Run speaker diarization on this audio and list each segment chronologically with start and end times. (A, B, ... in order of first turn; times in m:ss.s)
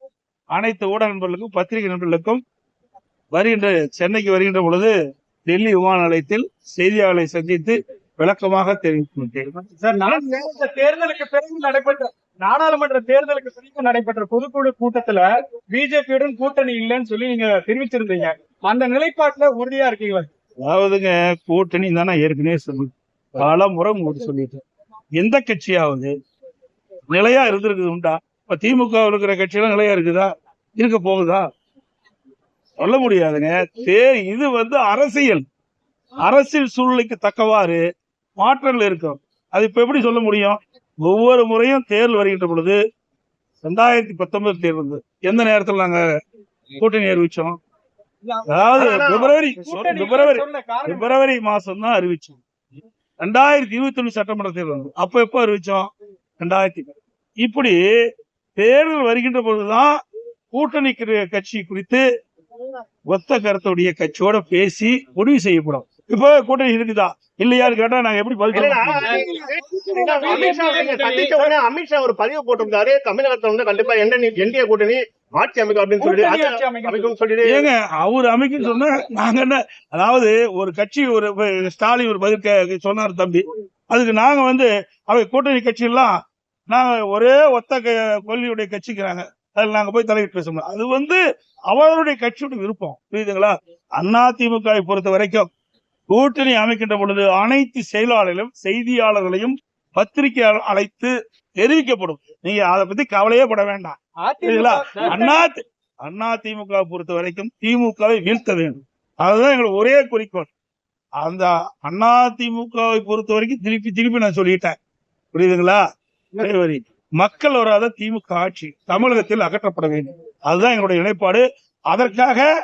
0:00.5-0:02.4 A
0:03.3-0:04.9 A
0:05.5-0:09.5 A
0:09.8-0:20.3 B
0:20.6-0:24.6 A
0:25.2-0:26.1 A
0:27.1-0:31.5 A
0:32.8-0:35.4 A
0:36.2-0:37.8 A
0:38.4-0:42.8 A
0:43.6-0:46.0 A
0:46.8-0:47.6 A
0:48.2-0:49.0 B
0:48.5-0:52.4 A
0:48.7-0:49.3 C
0:49.6-0:51.1 B
0:53.2-0:57.8 A
0:58.6-0:59.9 A
1:00.5-1:02.0 A
1:03.1-1:09.1 A
1:08.5-1:17.6 C
1:08.6-1:11.5 B
1:16.0-1:17.1 B
1:17.4-1:26.1 A
1:26.7-1:35.5 A
1:36.1-1:50.5 A
1:44.2-1:45.4 B
1:51.2-1:54.8 A
1:55.3-1:55.8 A
1:56.4-2:02.5 A